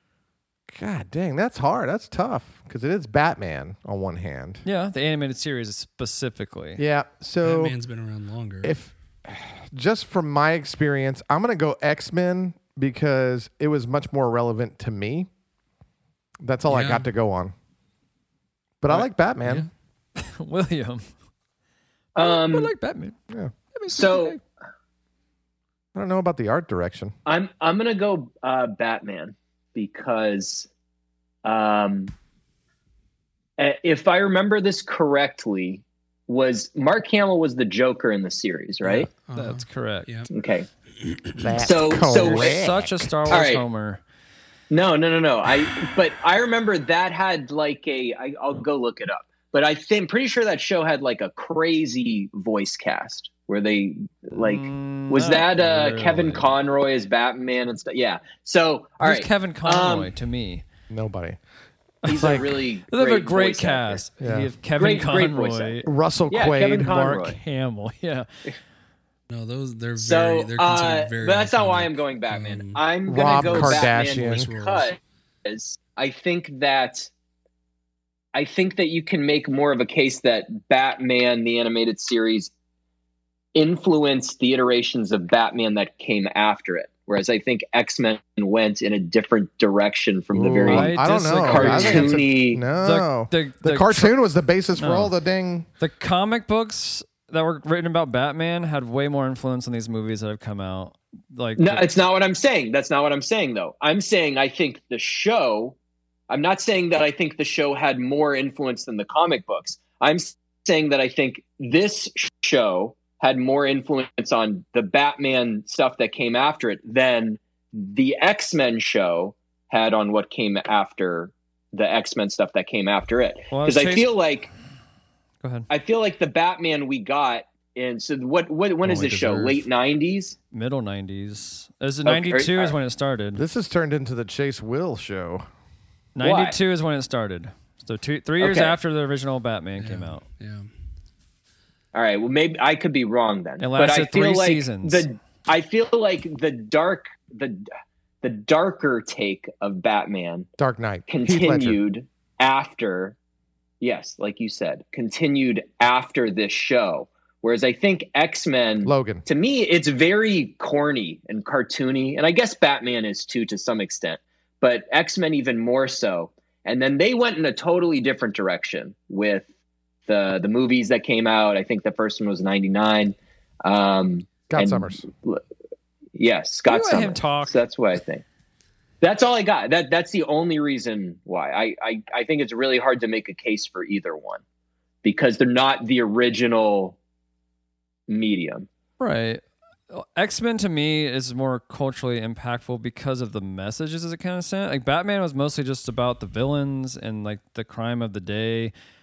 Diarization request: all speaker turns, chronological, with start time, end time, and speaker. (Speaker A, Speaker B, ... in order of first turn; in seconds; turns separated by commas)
Speaker A: 0.7-4.6, Speaker B: 4.6-6.8, Speaker A: 6.8-7.7, Speaker C: 7.4-8.7, Speaker A: 8.6-15.3, Speaker A: 16.4-17.5, Speaker C: 16.7-17.1, Speaker A: 18.8-19.7, Speaker C: 19.4-19.7, Speaker B: 20.1-21.1, Speaker D: 22.1-22.7, Speaker B: 22.2-23.1, Speaker B: 23.7-24.4, Speaker D: 23.9-24.4, Speaker A: 25.9-27.1, Speaker D: 27.2-30.7, Speaker D: 31.4-32.1, Speaker D: 33.6-39.1, Speaker C: 38.8-40.3, Speaker B: 39.3-40.1, Speaker D: 40.3-40.7, Speaker C: 41.0-41.4, Speaker A: 41.4-43.2, Speaker D: 41.6-42.6, Speaker B: 42.0-44.0, Speaker D: 43.3-43.6, Speaker D: 44.7-60.1, Speaker B: 54.3-56.5, Speaker B: 59.0-60.6, Speaker A: 60.9-61.4, Speaker D: 62.0-64.0, Speaker B: 62.0-65.9, Speaker A: 62.1-62.5, Speaker A: 64.2-64.5, Speaker D: 64.8-67.4, Speaker A: 65.8-67.0, Speaker B: 66.8-68.3, Speaker C: 69.3-72.8, Speaker D: 70.0-77.1, Speaker A: 73.0-74.5, Speaker C: 73.3-74.9, Speaker D: 78.3-82.5, Speaker D: 83.5-92.6, Speaker A: 90.3-95.7, Speaker B: 90.6-94.1, Speaker B: 94.8-95.1, Speaker B: 95.8-101.9, Speaker D: 101.6-105.8, Speaker D: 106.3-124.5, Speaker B: 123.5-124.1, Speaker B: 125.4-125.7, Speaker D: 125.7-130.3, Speaker B: 128.8-129.6, Speaker B: 130.5-133.4, Speaker D: 132.0-132.7, Speaker A: 133.3-135.4, Speaker B: 136.2-140.2, Speaker D: 136.2-136.6, Speaker D: 138.4-138.8, Speaker C: 139.8-140.7, Speaker D: 141.9-147.7, Speaker B: 143.6-145.0, Speaker D: 148.2-150.5, Speaker A: 150.6-151.8, Speaker D: 151.1-153.2, Speaker D: 153.8-169.4, Speaker A: 158.8-159.2, Speaker D: 170.1-175.4, Speaker A: 174.5-175.0, Speaker D: 176.2-178.2, Speaker B: 176.7-177.6, Speaker D: 179.0-184.4, Speaker D: 185.0-187.0, Speaker D: 188.1-188.7, Speaker B: 189.0-198.7